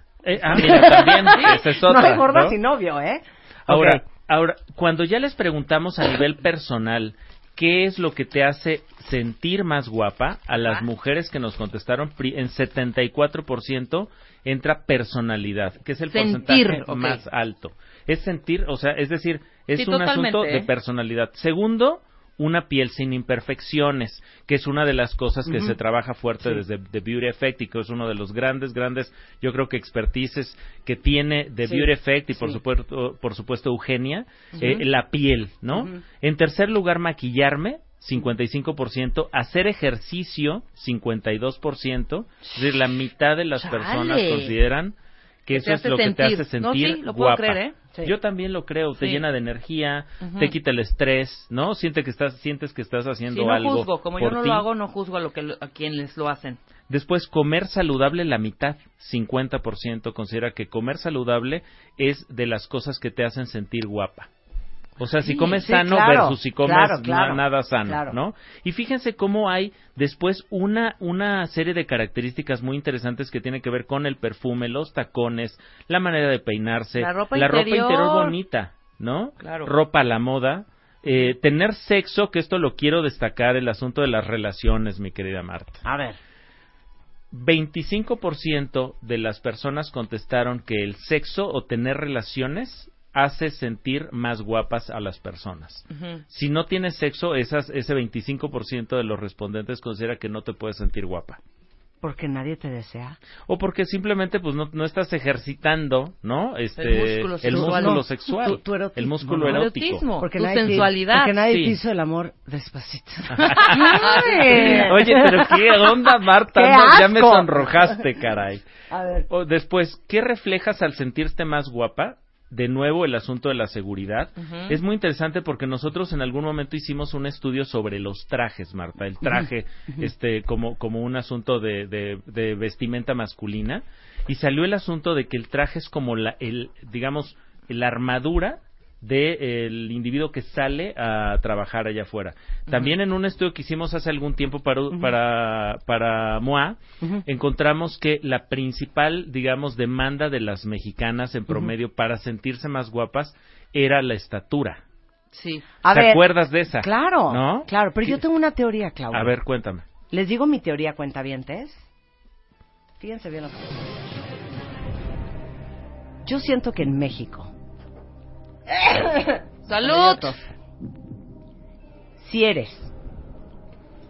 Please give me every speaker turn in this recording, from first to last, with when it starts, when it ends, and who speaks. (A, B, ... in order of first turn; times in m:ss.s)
0:00.2-0:02.6 A
0:00.5-0:04.0 B
0:01.2-0:01.6 C
0:03.7-0:54.6 A
0:10.6-0:10.8 C
0:16.1-0:17.2 C
0:19.8-0:20.7 C
0:25.5-0:25.8 B
0:31.6-0:32.6 B
0:34.6-0:34.8 C
0:43.6-0:44.6 C
0:45.5-0:47.8 C
0:49.0-0:49.2 C
0:50.2-0:50.6 C
0:53.3-0:56.6 C
0:56.9-1:04.3 A
1:05.0-1:25.8 A
1:05.2-1:08.2 B
1:17.0-1:18.4 C
1:19.4-1:19.7 C
1:25.8-1:26.2 B
1:27.3-1:41.4 A
1:35.9-1:36.2 C
1:42.0-1:43.2 B
1:43.5-1:50.0 A
1:46.8-1:48.0 C
1:47.5-1:49.7 B
1:49.4-1:51.4 C
1:50.2-1:56.0 B
1:51.4-1:51.8 A
1:53.3-1:58.7 A
1:53.6-1:55.0 C
1:56.5-1:58.0 B
1:58.9-1:59.3 B
1:59.3-2:34.8 A
2:04.4-2:04.8 C
2:35.3-2:35.7 C
2:35.8-2:39.4 B
2:35.9-2:38.2 A
2:39.1-2:39.9 A
2:40.1-2:41.8 B
2:43.0-2:44.1 B
2:46.2-2:47.5 B
2:48.7-2:50.4 B
2:49.7-2:50.4 C
2:52.2-2:52.9 B